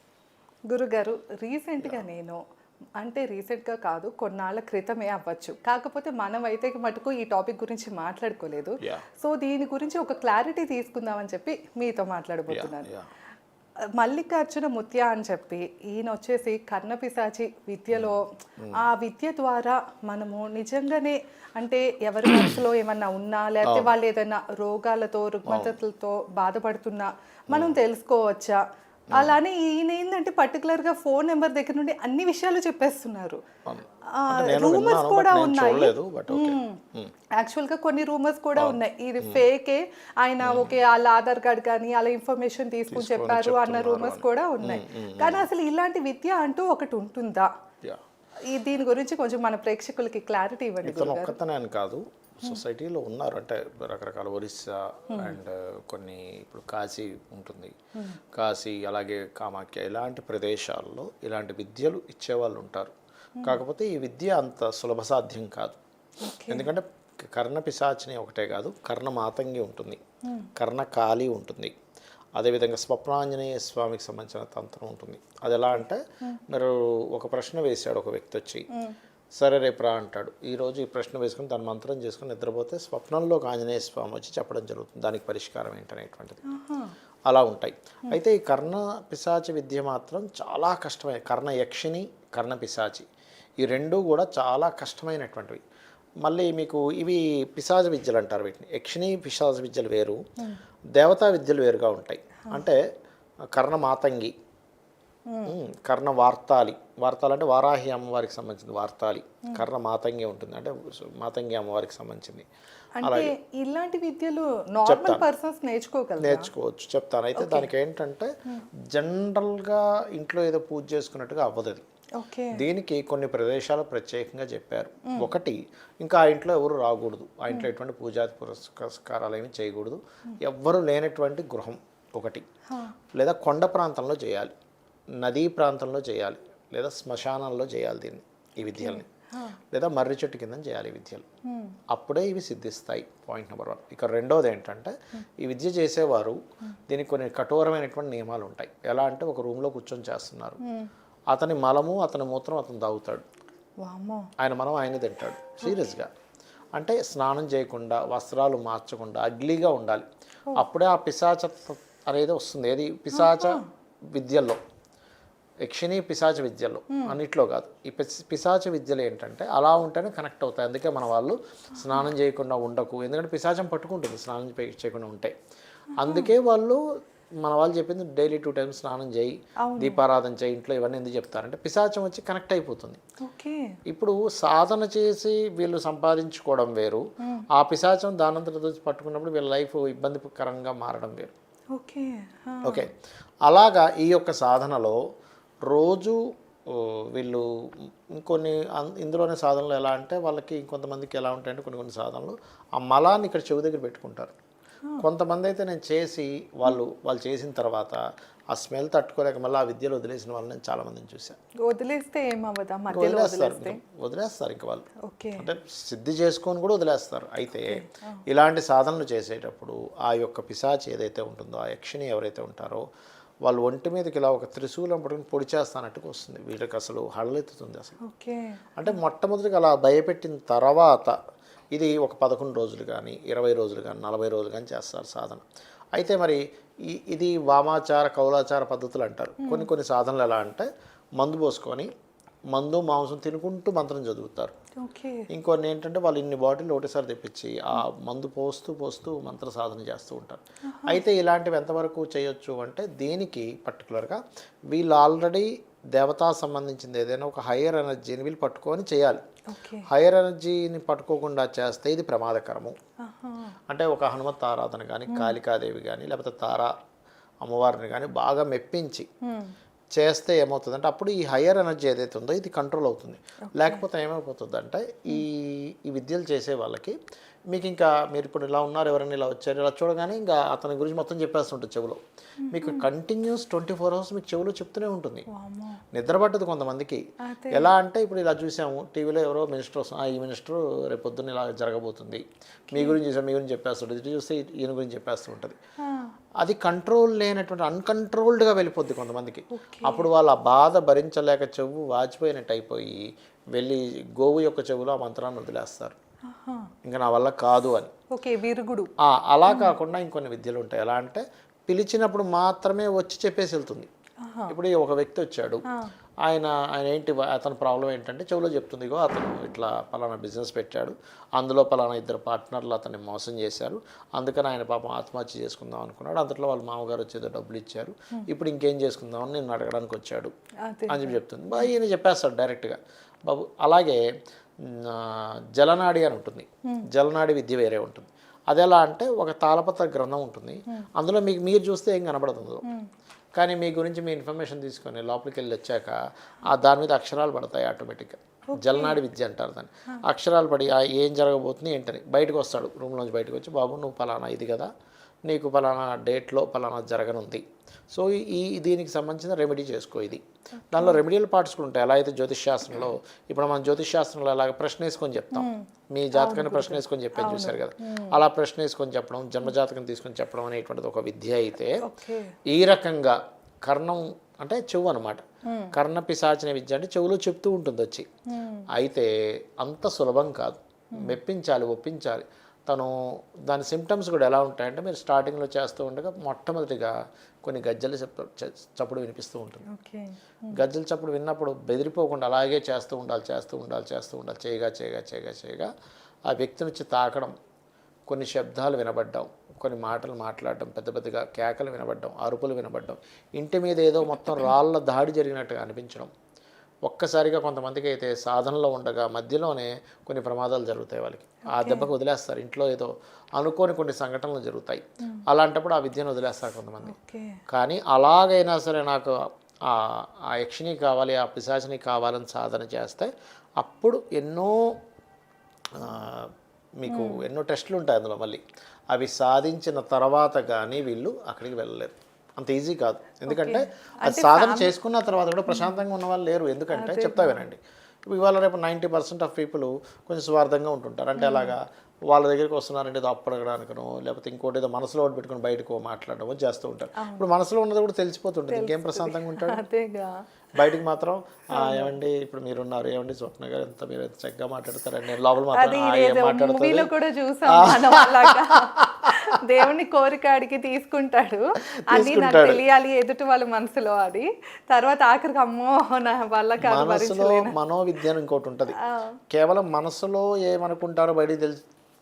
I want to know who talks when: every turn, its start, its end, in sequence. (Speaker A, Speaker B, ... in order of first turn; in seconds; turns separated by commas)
Speaker A: 0.7-2.4, Speaker A: 3.0-12.9, Speaker B: 12.5-13.1, Speaker A: 14.0-33.4, Speaker B: 17.9-18.9, Speaker B: 23.6-23.9, Speaker B: 25.5-25.8, Speaker B: 27.5-27.8, Speaker B: 29.1-29.4, Speaker B: 33.7-37.1, Speaker A: 34.1-36.8, Speaker A: 37.4-47.5, Speaker B: 38.6-39.5, Speaker B: 40.4-40.8, Speaker B: 42.9-45.5, Speaker A: 48.5-51.4, Speaker B: 50.8-57.7, Speaker A: 55.1-55.4, Speaker B: 58.3-62.9, Speaker B: 63.5-65.8, Speaker A: 66.2-66.7, Speaker B: 66.5-70.0, Speaker A: 70.2-70.5, Speaker B: 70.5-71.7, Speaker B: 72.4-78.7, Speaker B: 79.4-86.4, Speaker A: 86.5-86.9, Speaker B: 87.3-93.1, Speaker B: 93.6-95.6, Speaker B: 96.2-100.2, Speaker B: 101.0-102.8, Speaker B: 103.5-104.3, Speaker A: 105.3-105.5, Speaker B: 105.5-112.5, Speaker A: 113.0-116.5, Speaker B: 113.0-113.3, Speaker B: 114.8-115.2, Speaker B: 116.2-118.3, Speaker A: 117.3-117.7, Speaker B: 118.9-121.8, Speaker A: 122.2-122.6, Speaker B: 122.5-132.4, Speaker B: 133.2-134.5, Speaker B: 135.2-139.1, Speaker A: 138.7-139.6, Speaker B: 139.7-141.2, Speaker A: 141.5-141.8, Speaker B: 141.9-150.6, Speaker A: 150.6-150.9, Speaker B: 151.3-153.2, Speaker A: 153.8-154.3, Speaker B: 154.4-156.1, Speaker A: 155.6-155.9, Speaker B: 156.8-163.6, Speaker A: 163.1-163.6, Speaker B: 164.1-164.6, Speaker B: 165.7-175.3, Speaker A: 166.9-167.2, Speaker A: 171.8-172.1, Speaker B: 176.0-176.8, Speaker A: 176.0-176.3, Speaker B: 177.4-183.0, Speaker A: 179.6-180.0, Speaker A: 183.2-183.8, Speaker B: 183.9-187.0, Speaker A: 187.2-187.4, Speaker B: 187.6-191.3, Speaker A: 191.7-192.8, Speaker B: 193.4-195.0, Speaker B: 195.7-204.3, Speaker B: 205.0-208.0, Speaker B: 208.5-211.4, Speaker A: 211.6-213.8, Speaker B: 212.9-214.9, Speaker A: 215.0-215.5, Speaker B: 215.4-222.8, Speaker A: 217.6-218.2, Speaker B: 223.4-228.0, Speaker A: 228.0-228.9, Speaker B: 228.8-231.1, Speaker B: 231.7-235.4, Speaker B: 235.9-241.9, Speaker A: 239.4-239.7, Speaker B: 242.5-244.6, Speaker A: 244.8-245.3, Speaker B: 245.3-259.2, Speaker A: 250.7-251.0, Speaker A: 259.5-259.9, Speaker B: 259.9-262.8, Speaker A: 263.0-263.6, Speaker B: 263.7-266.7, Speaker A: 265.1-265.3, Speaker B: 267.4-269.1, Speaker A: 269.2-269.5, Speaker B: 269.9-276.9, Speaker A: 273.5-273.8, Speaker B: 277.5-285.2, Speaker A: 282.4-282.8, Speaker A: 285.3-285.8, Speaker B: 285.9-295.6, Speaker A: 287.2-287.7, Speaker A: 292.7-293.0, Speaker A: 295.8-296.1, Speaker B: 296.4-305.9, Speaker A: 299.5-300.1, Speaker A: 306.3-306.7, Speaker B: 306.8-307.9, Speaker A: 308.1-308.9, Speaker B: 309.0-313.9, Speaker A: 309.5-309.8, Speaker A: 314.2-314.6, Speaker B: 314.5-315.6, Speaker B: 316.2-330.3, Speaker A: 330.6-331.7, Speaker B: 330.9-334.0, Speaker B: 334.6-342.6, Speaker B: 343.4-354.7, Speaker A: 348.5-349.0, Speaker B: 355.3-371.8, Speaker A: 360.7-361.0, Speaker A: 365.3-368.2, Speaker A: 371.8-372.3, Speaker B: 372.4-378.1, Speaker A: 375.4-375.7, Speaker A: 378.3-378.7, Speaker B: 378.8-382.9, Speaker B: 383.5-386.9, Speaker B: 387.4-389.6, Speaker A: 389.6-390.6, Speaker B: 390.5-395.7, Speaker B: 396.3-397.3, Speaker B: 398.1-406.1, Speaker A: 404.1-404.5, Speaker B: 406.9-416.9, Speaker A: 411.5-411.9, Speaker A: 416.8-417.4, Speaker B: 417.5-419.1, Speaker B: 419.7-424.8, Speaker B: 425.8-449.6, Speaker A: 426.9-427.2, Speaker A: 433.2-434.7, Speaker A: 435.5-435.8, Speaker A: 436.7-437.4, Speaker A: 441.2-441.6, Speaker A: 447.0-447.3, Speaker A: 448.5-450.1, Speaker B: 450.6-456.9, Speaker A: 451.5-451.9, Speaker A: 455.5-467.6, Speaker B: 457.5-459.1, Speaker B: 461.8-462.6, Speaker B: 466.6-468.8, Speaker A: 468.7-469.1, Speaker B: 469.3-471.6